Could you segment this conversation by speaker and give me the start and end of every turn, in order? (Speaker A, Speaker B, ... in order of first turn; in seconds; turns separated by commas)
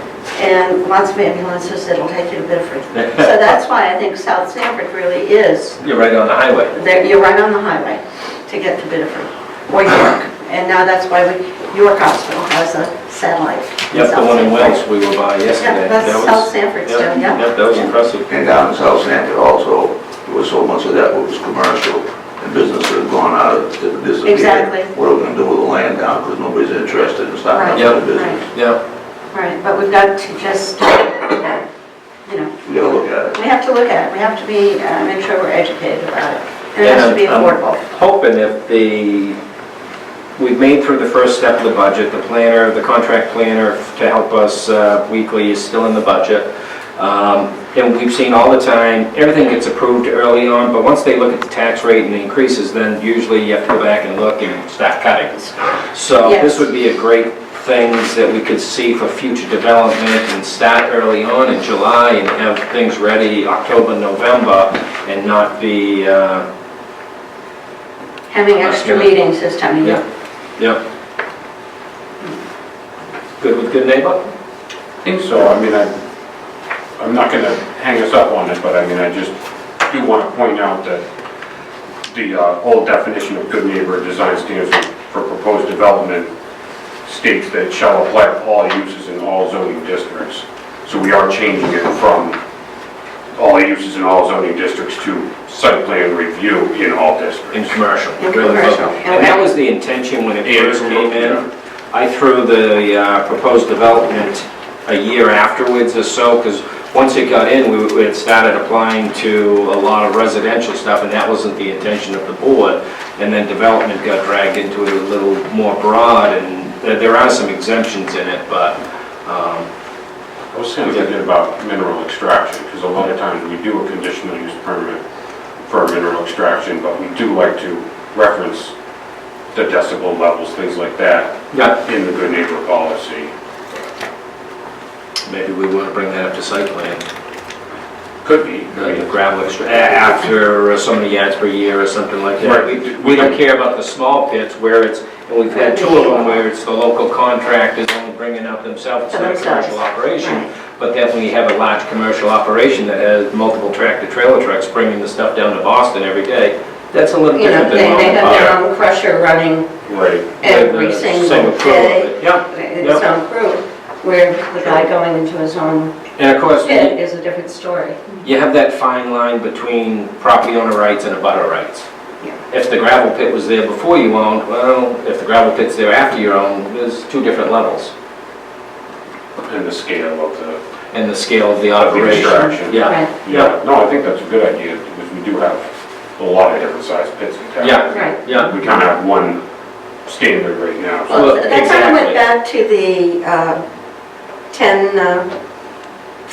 Speaker A: 0.3-5.8, Speaker B: 5.8-6.7, Speaker A: 6.7-14.8, Speaker B: 13.9-18.3, Speaker A: 15.6-17.9, Speaker C: 18.3-28.4, Speaker A: 24.2-24.9, Speaker A: 27.5-28.4, Speaker B: 28.5-28.8, Speaker A: 29.3-31.6, Speaker A: 32.2-32.5, Speaker C: 32.6-33.4, Speaker A: 33.3-37.8, Speaker B: 36.8-39.4, Speaker B: 40.4-46.5, Speaker B: 47.0-66.4, Speaker A: 56.2-56.6, Speaker A: 68.3-70.0, Speaker B: 68.6-69.1, Speaker B: 73.4-74.3, Speaker D: 75.0-75.9, Speaker D: 77.0-81.0, Speaker D: 82.1-86.3, Speaker D: 87.0-92.4, Speaker D: 93.3-97.8, Speaker B: 97.5-119.7, Speaker A: 98.2-99.5, Speaker D: 100.4-101.4, Speaker D: 120.5-125.0, Speaker D: 125.6-128.7, Speaker D: 129.5-133.8, Speaker B: 131.5-131.8, Speaker B: 135.2-137.0, Speaker D: 138.2-140.2, Speaker B: 138.7-158.5, Speaker D: 142.4-143.4, Speaker A: 145.5-146.4, Speaker A: 149.1-150.5, Speaker A: 157.3-159.7, Speaker D: 159.8-160.4, Speaker B: 160.4-163.0, Speaker A: 160.4-166.0, Speaker B: 166.2-166.9, Speaker A: 166.6-168.2, Speaker B: 168.2-171.8, Speaker B: 172.5-177.9, Speaker D: 179.4-180.6, Speaker B: 180.9-183.5, Speaker D: 181.7-189.4, Speaker A: 182.8-183.1, Speaker B: 187.6-188.5, Speaker A: 187.9-188.2, Speaker D: 190.0-192.2, Speaker A: 191.1-193.6, Speaker B: 191.1-191.4, Speaker A: 194.5-195.3